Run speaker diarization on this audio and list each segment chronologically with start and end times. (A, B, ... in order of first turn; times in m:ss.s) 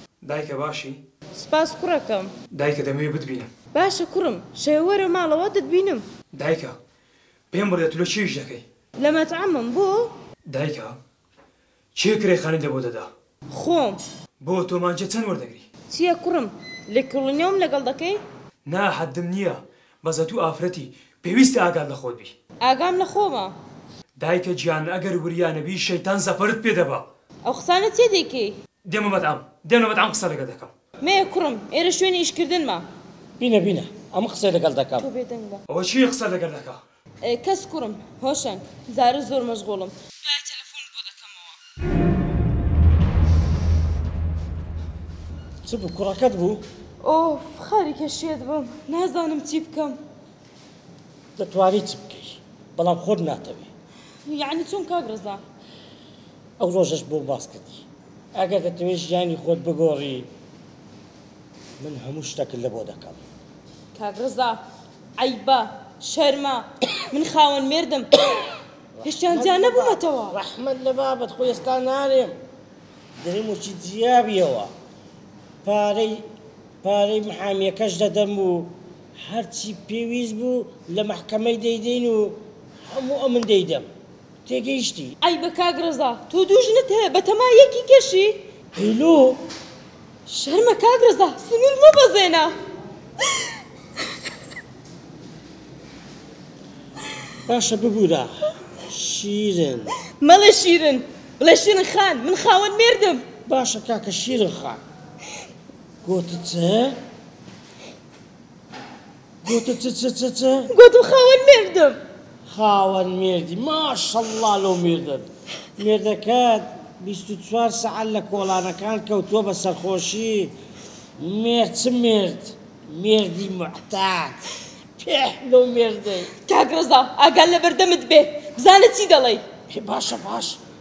0:00.2-0:01.0 A
0:01.3-0:02.4 B
0:02.5-0:03.5 A
0:03.7-0:06.1 B
0:06.3-0:06.8 A
0:07.5-0:08.6 A
0:09.0-0:10.1 B
0:10.5-0:11.0 A
0:11.9-0:13.1 A
0:13.5-0:14.0 B
0:14.4-0:15.6 A
0:15.9-0:18.2 B
0:18.6-0:22.3 A
0:22.6-0:23.5 B
0:24.2-0:27.1 A
0:27.4-0:28.6 B
0:28.8-0:30.7 A
0:31.0-0:32.8 B
0:33.4-0:35.1 C
0:35.0-0:35.6 B
0:35.7-0:36.8 A
0:37.2-0:41.6 B
0:45.6-0:46.6 C
0:47.0-0:50.0 B
0:51.4-0:53.7 C
0:54.2-0:55.4 B
0:56.6-1:00.3 C
1:01.8-1:03.2 C
1:03.9-1:04.6 B
1:05.2-1:08.2 B
1:09.0-1:12.4 C
1:09.0-1:10.4 B
1:13.2-1:14.7 C
1:15.6-1:16.3 C
1:16.8-1:23.9 C
1:24.4-1:25.1 C
1:25.2-1:28.5 B
1:28.7-1:29.4 C
1:30.3-1:32.6 B
1:37.5-1:40.0 C
1:40.1-1:43.3 B
1:43.4-1:44.8 C
1:46.0-1:47.0 C
1:49.4-1:50.7 C
1:50.7-1:52.0 B
1:52.4-2:00.5 C
2:01.2-2:04.5 C
2:05.0-2:06.3 C
2:06.4-2:09.4 B
2:09.7-2:10.6 C